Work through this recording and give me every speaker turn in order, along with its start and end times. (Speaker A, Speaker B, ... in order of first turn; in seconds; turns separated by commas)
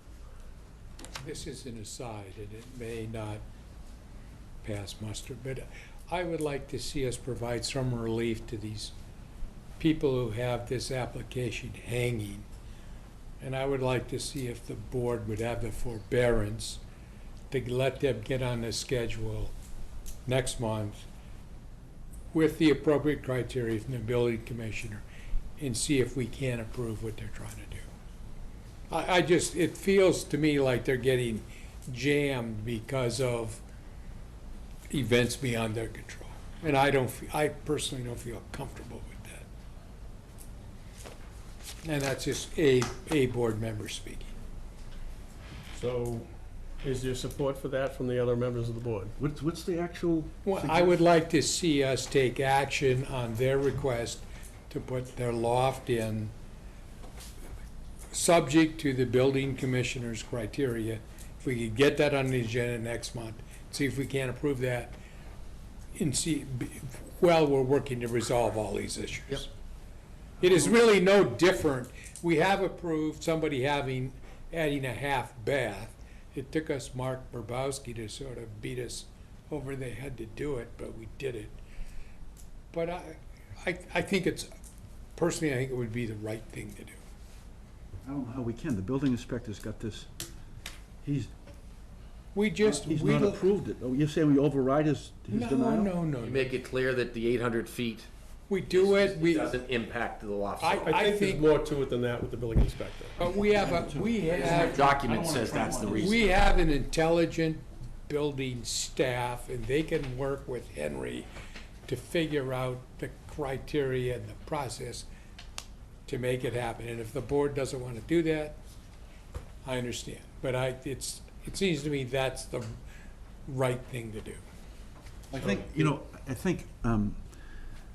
Speaker A: 1.2-3.4, Speaker A: 4.6-8.9, Speaker A: 9.8-12.5, Speaker A: 13.4-16.8, Speaker A: 17.5-19.5, Speaker A: 20.2-21.0, Speaker A: 22.3-25.0, Speaker A: 25.6-27.9, Speaker A: 28.9-33.6, Speaker A: 34.9-39.5, Speaker A: 41.8-44.3, Speaker B: 45.8-46.3, Speaker B: 46.8-49.1, Speaker C: 49.2-51.0, Speaker A: 50.4-56.3, Speaker A: 58.1-65.0, Speaker A: 65.9-69.5, Speaker A: 70.4-81.5, Speaker A: 82.7-84.5, Speaker A: 85.2-87.0, Speaker C: 88.0-90.1, Speaker C: 91.0-91.3, Speaker A: 92.3-93.4, Speaker C: 92.6-95.9, Speaker A: 95.3-96.5, Speaker D: 96.2-98.1, Speaker A: 98.5-99.5, Speaker D: 98.7-101.0, Speaker A: 100.6-101.5, Speaker B: 101.0-103.1, Speaker A: 103.2-104.8, Speaker C: 103.3-106.2, Speaker D: 104.4-106.3, Speaker A: 105.9-111.3, Speaker A: 111.8-115.1, Speaker A: 116.0-118.6, Speaker A: 119.6-122.8, Speaker A: 123.5-124.4, Speaker C: 125.3-127.2